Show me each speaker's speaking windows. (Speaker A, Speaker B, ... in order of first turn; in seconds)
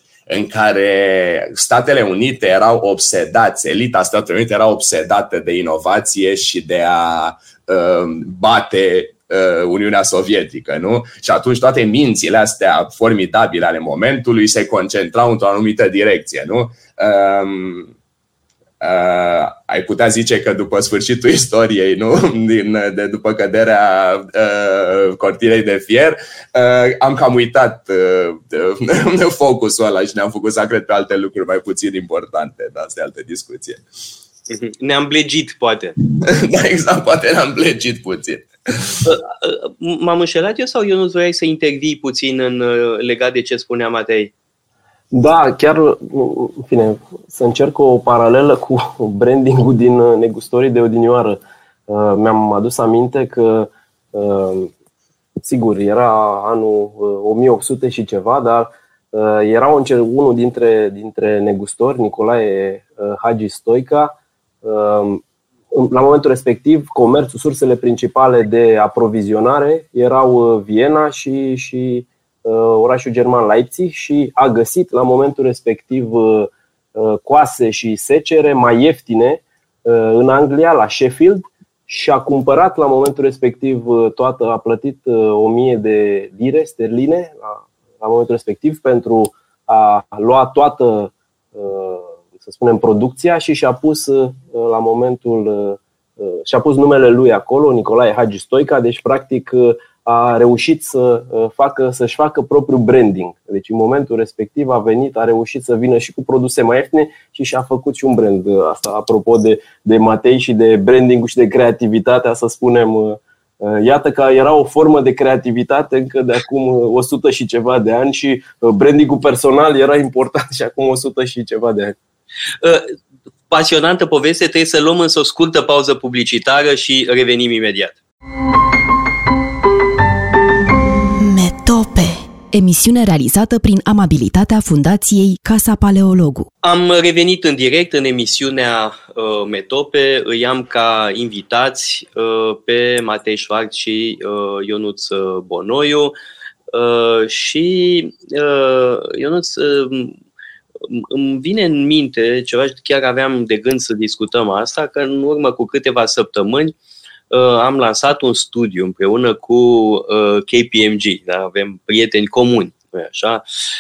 Speaker A: 0.3-17.9, 18.8-33.8, 36.0-39.1
Speaker B: 34.5-36.0, 39.0-44.3, 122.6-122.9, 123.5-128.0, 136.6-146.1, 146.7-150.2, 150.9-156.8, 157.3-163.4
Speaker C: 45.1-54.7, 55.4-65.2, 65.7-122.0
Speaker D: 131.2-136.5